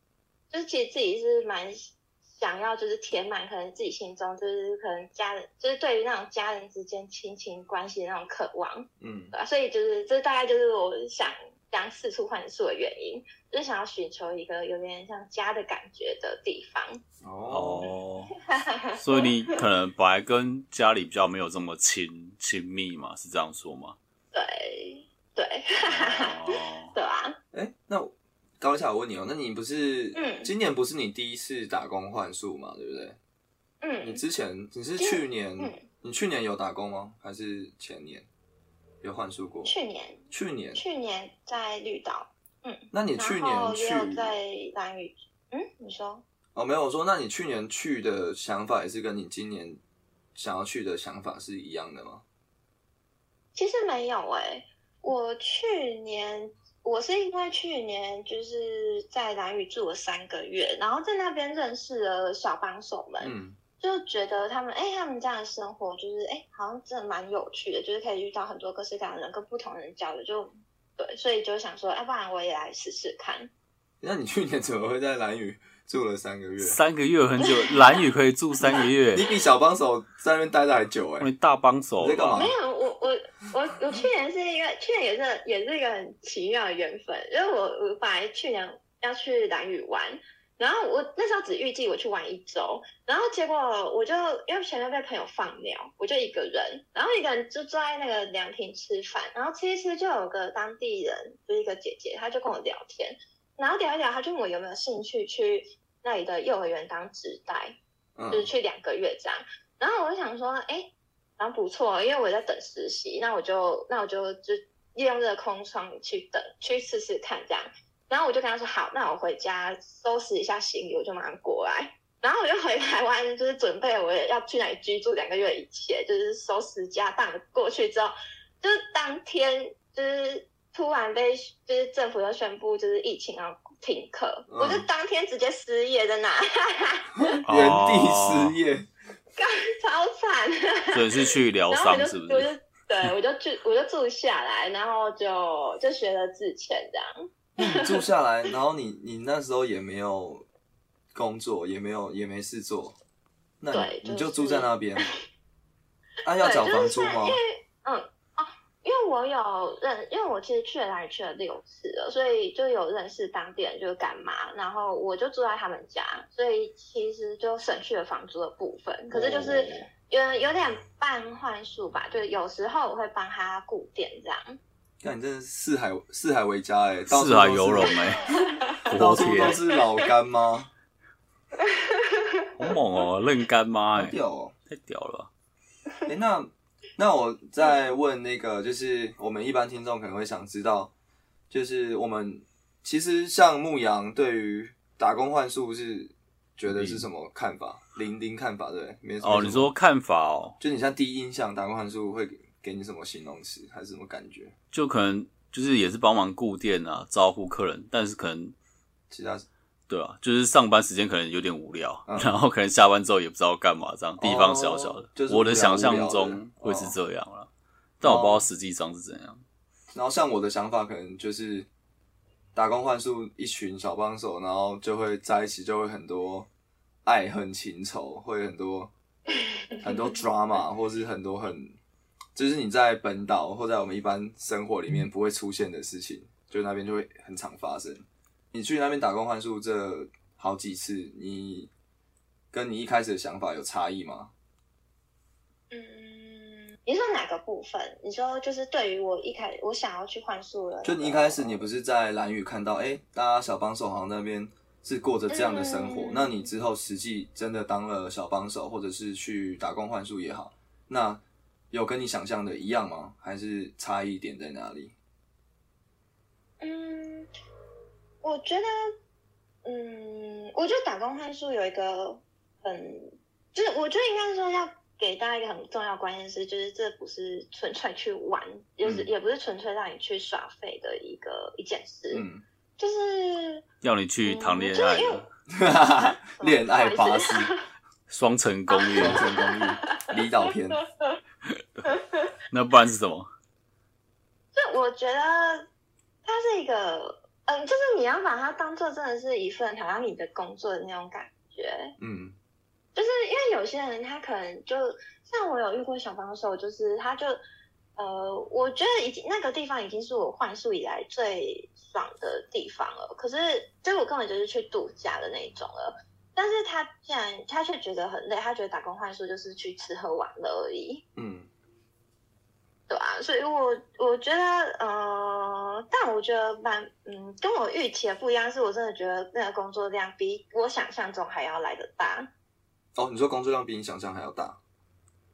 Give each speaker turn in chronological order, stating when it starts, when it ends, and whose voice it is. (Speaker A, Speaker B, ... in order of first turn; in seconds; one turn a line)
Speaker A: 0.5-17.0
Speaker B: 9.0-9.3
Speaker B: 17.2-17.9
Speaker C: 17.5-18.4
Speaker A: 18.5-19.6
Speaker C: 19.0-24.0
Speaker A: 24.3-27.4
Speaker C: 25.8-26.9
Speaker B: 27.5-33.2
Speaker A: 30.1-30.5
Speaker A: 33.8-34.2
Speaker B: 34.0-38.3
Speaker A: 35.0-35.9
Speaker B: 39.0-39.7
Speaker A: 39.6-46.2
Speaker B: 40.3-40.8
Speaker B: 42.9-44.3
Speaker B: 46.5-49.8
Speaker B: 50.4-52.2
Speaker A: 53.5-73.5
Speaker B: 63.2-63.6
Speaker B: 74.0-76.8
Speaker C: 76.6-79.3
Speaker A: 77.5-78.0
Speaker B: 79.1-81.3
Speaker C: 81.2-82.5
Speaker B: 82.0-82.5
Speaker A: 82.3-107.8
Speaker B: 108.2-108.5
Speaker A: 108.3-137.4
Speaker B: 134.5-134.9
Speaker B: 137.2-138.9
Speaker C: 137.4-138.6
Speaker A: 139.4-148.0
Speaker C: 140.9-142.5
Speaker B: 147.6-150.4
Speaker B: 151.1-153.0
Speaker B: 153.6-155.1
Speaker A: 153.7-155.1
Speaker B: 156.2-157.4
Speaker A: 156.4-174.6
Speaker B: 169.1-169.9
Speaker B: 175.0-178.1
Speaker C: 177.1-178.3
Speaker A: 178.4-178.8
Speaker C: 178.8-179.6
Speaker B: 178.9-180.7
Speaker C: 182.6-184.2
Speaker B: 183.9-184.5
Speaker C: 184.7-185.3
Speaker B: 186.1-190.9
Speaker B: 191.5-199.7
Speaker C: 196.7-197.1
Speaker C: 199.2-200.6
Speaker B: 200.6-204.5
Speaker C: 204.7-208.6
Speaker B: 209.1-209.5
Speaker C: 209.9-217.5
Speaker B: 212.1-212.3
Speaker B: 214.2-217.0
Speaker C: 218.0-219.4
Speaker B: 218.0-218.4
Speaker B: 219.9-221.7
Speaker B: 222.6-226.5
Speaker B: 227.1-228.9
Speaker A: 229.6-229.8
Speaker B: 229.8-231.8
Speaker B: 232.3-241.7
Speaker B: 242.5-244.3
Speaker A: 245.7-251.7
Speaker B: 250.8-264.9
Speaker A: 255.3-256.4
Speaker A: 266.6-267.3
Speaker A: 268.2-268.7
Speaker A: 269.6-282.2
Speaker B: 278.8-279.1
Speaker B: 282.1-282.4
Speaker A: 282.8-283.6
Speaker C: 283.8-285.3
Speaker A: 284.2-285.2
Speaker B: 285.5-287.5
Speaker A: 286.3-287.6
Speaker C: 288.1-289.3
Speaker A: 288.7-291.2
Speaker B: 288.9-290.8
Speaker A: 291.9-292.3
Speaker C: 292.5-293.3
Speaker A: 294.6-295.7
Speaker A: 296.2-301.9
Speaker B: 302.0-302.4
Speaker A: 302.9-307.4
Speaker A: 308.0-321.0
Speaker B: 321.2-321.5
Speaker A: 322.9-332.3
Speaker B: 333.0-334.6